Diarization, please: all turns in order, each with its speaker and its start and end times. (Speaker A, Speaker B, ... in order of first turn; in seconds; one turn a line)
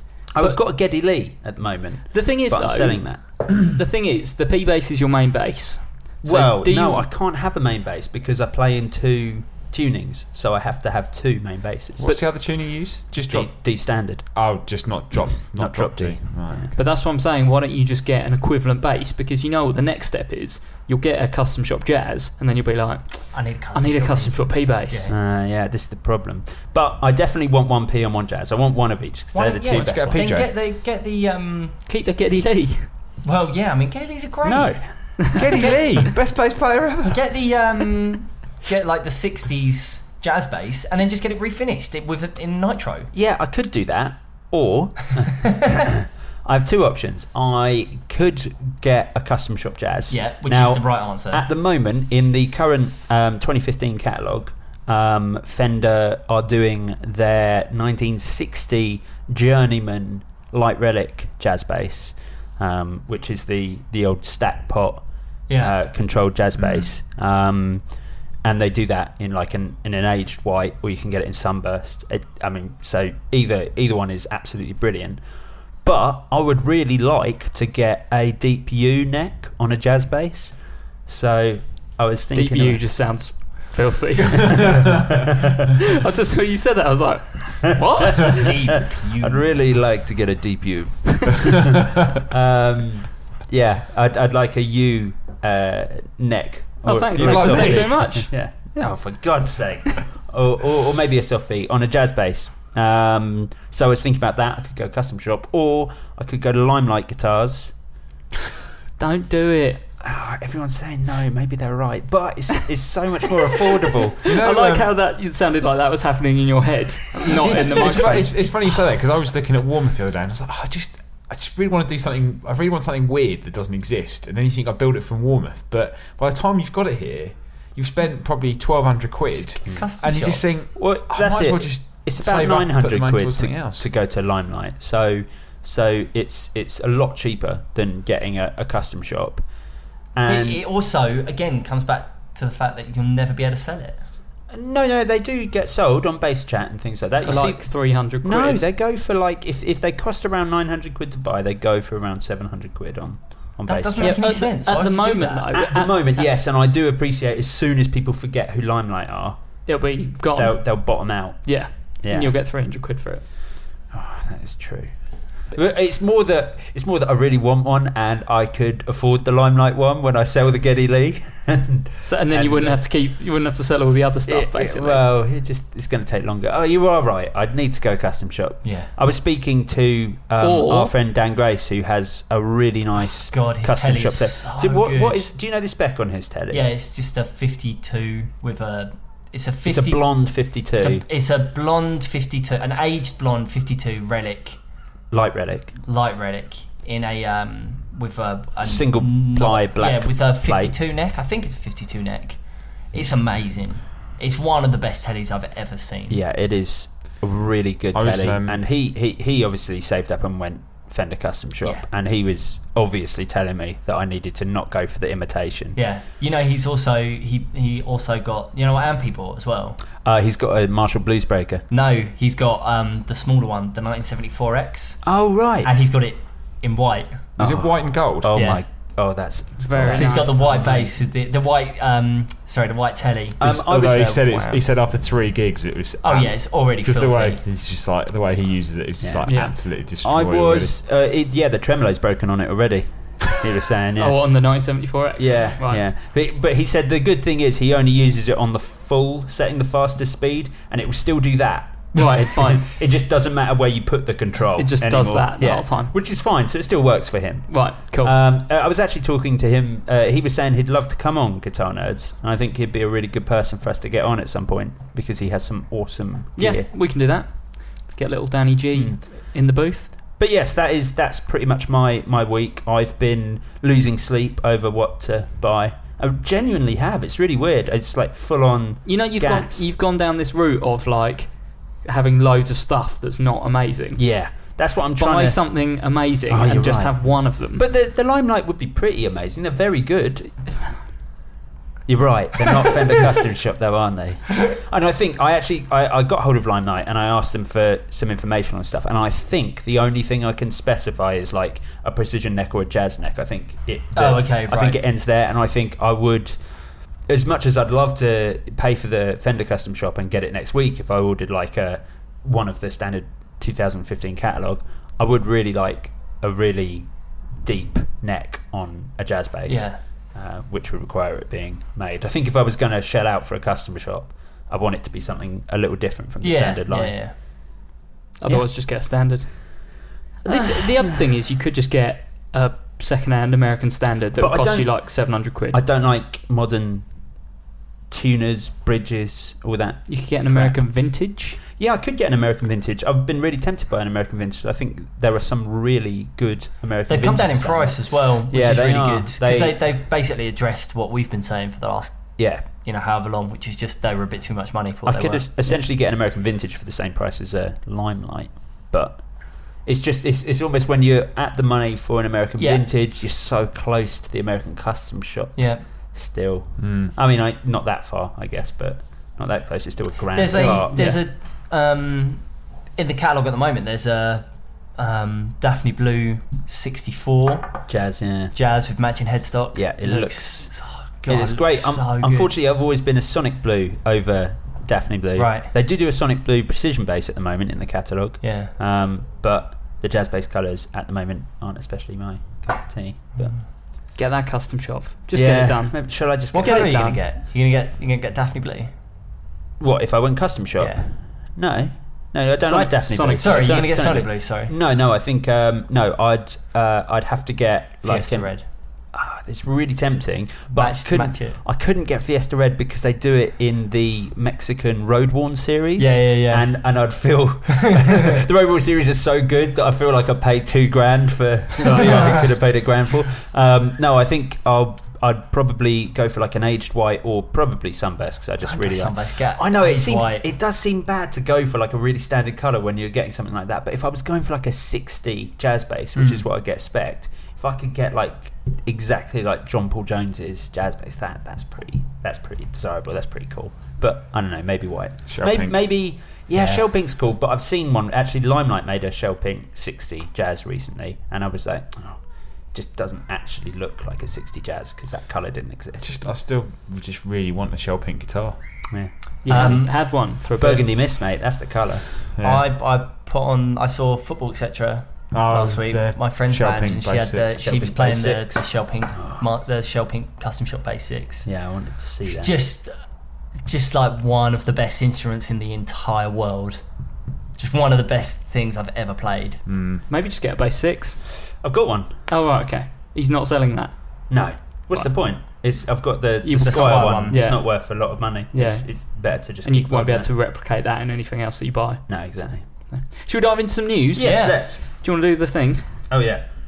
Speaker A: 0.3-3.5
Speaker B: 2.1-7.1
Speaker A: 6.2-12.1
Speaker C: 12.0-16.7
Speaker A: 13.3-14.3
Speaker A: 15.5-16.7
Speaker B: 16.7-25.1
Speaker D: 23.3-25.1
Speaker A: 25.1-30.4
Speaker D: 29.3-31.8
Speaker C: 29.7-30.5
Speaker B: 31.9-32.9
Speaker D: 33.2-35.8
Speaker A: 34.4-35.4
Speaker C: 35.3-37.2
Speaker D: 37.0-43.1
Speaker A: 43.1-65.0
Speaker D: 50.1-51.4
Speaker D: 65.5-65.7
Speaker A: 65.6-67.9
Speaker C: 66.6-66.9
Speaker A: 68.4-75.2
Speaker A: 75.8-80.5
Speaker A: 81.1-82.9
Speaker B: 82.3-84.8
Speaker A: 84.6-85.5
Speaker B: 85.9-88.5
Speaker D: 88.4-89.6
Speaker A: 89.2-107.7
Speaker B: 96.8-98.3
Speaker C: 97.1-98.0
Speaker B: 109.0-109.8
Speaker A: 110.0-114.2
Speaker C: 114.2-114.9
Speaker B: 114.2-118.4
Speaker C: 117.4-133.8
Speaker A: 117.6-118.3
Speaker A: 129.6-139.4
Speaker D: 129.7-130.4
Speaker A: 140.1-140.6
Speaker D: 140.2-144.0
Speaker A: 144.5-154.2
Speaker B: 147.2-148.6
Speaker D: 153.7-155.5
Speaker B: 154.0-156.3
Speaker A: 155.5-162.3
Speaker B: 159.7-163.2
Speaker A: 163.9-164.9
Speaker A: 165.5-172.8
Speaker B: 172.0-175.0
Speaker A: 174.3-186.7
Speaker D: 178.6-178.9
Speaker B: 180.4-180.9
Speaker D: 183.3-185.3
Speaker D: 186.5-194.6
Speaker A: 189.7-191.0
Speaker A: 195.1-195.7
Speaker D: 195.8-202.4
Speaker A: 198.6-200.7
Speaker D: 202.9-206.2
Speaker A: 206.1-215.8
Speaker C: 207.9-208.6
Speaker D: 215.8-219.8
Speaker A: 220.0-221.6
Speaker D: 221.7-227.3
Speaker A: 225.0-225.7
Speaker C: 227.4-228.3
Speaker A: 227.4-230.9
Speaker D: 228.3-228.6
Speaker B: 229.6-230.4
Speaker D: 229.9-234.6
Speaker A: 233.4-234.2
Speaker C: 233.4-240.7
Speaker D: 236.0-237.4
Speaker A: 239.0-244.2
Speaker B: 239.2-239.5
Speaker B: 244.0-245.8
Speaker A: 245.2-266.7
Speaker B: 251.9-252.7
Speaker B: 254.6-255.9
Speaker B: 257.5-258.2
Speaker B: 266.4-269.9
Speaker A: 268.7-269.0
Speaker A: 270.2-279.7
Speaker B: 278.8-284.0
Speaker A: 283.9-285.6
Speaker B: 285.0-287.6
Speaker A: 286.3-290.4
Speaker A: 291.9-306.4
Speaker D: 303.9-304.8
Speaker A: 307.1-327.1
Speaker D: 319.5-319.8
Speaker D: 326.2-327.1
Speaker B: 328.2-335.6
Speaker A: 328.2-328.5
Speaker A: 330.2-331.0
Speaker A: 334.1-336.9
Speaker A: 337.9-340.6
Speaker B: 339.9-341.4
Speaker A: 341.4-349.6
Speaker D: 346.9-355.3
Speaker A: 352.2-352.5
Speaker A: 354.9-371.0
Speaker D: 362.4-362.6
Speaker D: 365.4-365.6
Speaker C: 366.6-366.9
Speaker D: 370.1-372.2
Speaker D: 372.8-374.2
Speaker D: 374.8-377.6
Speaker A: 377.7-378.4
Speaker D: 378.3-382.3
Speaker A: 379.5-380.5
Speaker A: 381.1-393.4
Speaker D: 385.1-385.5
Speaker D: 388.2-388.5
Speaker D: 393.1-393.4
Speaker B: 393.9-397.0
Speaker A: 395.1-396.9
Speaker D: 396.3-398.7
Speaker A: 399.6-408.4
Speaker D: 400.6-400.9
Speaker B: 402.2-403.3
Speaker D: 403.2-404.5
Speaker D: 407.8-408.5
Speaker A: 408.9-455.9
Speaker D: 410.5-411.4
Speaker D: 415.8-416.9
Speaker D: 421.6-422.2
Speaker D: 428.4-430.2
Speaker D: 435.9-436.2
Speaker C: 445.1-445.6
Speaker C: 455.8-458.4
Speaker A: 458.7-461.9
Speaker B: 459.2-460.7
Speaker D: 459.3-459.7
Speaker D: 462.2-471.3
Speaker C: 465.1-467.4
Speaker A: 467.4-468.4
Speaker A: 469.0-469.2
Speaker A: 471.2-472.3
Speaker D: 472.0-472.7
Speaker D: 473.4-476.6
Speaker D: 477.4-479.4
Speaker C: 479.5-479.8
Speaker B: 479.9-481.0
Speaker A: 481.4-482.0
Speaker B: 482.1-484.1
Speaker A: 484.1-490.1
Speaker B: 486.2-491.9
Speaker D: 486.4-487.2
Speaker A: 491.9-492.4
Speaker B: 492.7-495.6
Speaker A: 493.9-494.6
Speaker D: 494.0-494.4
Speaker A: 495.9-496.2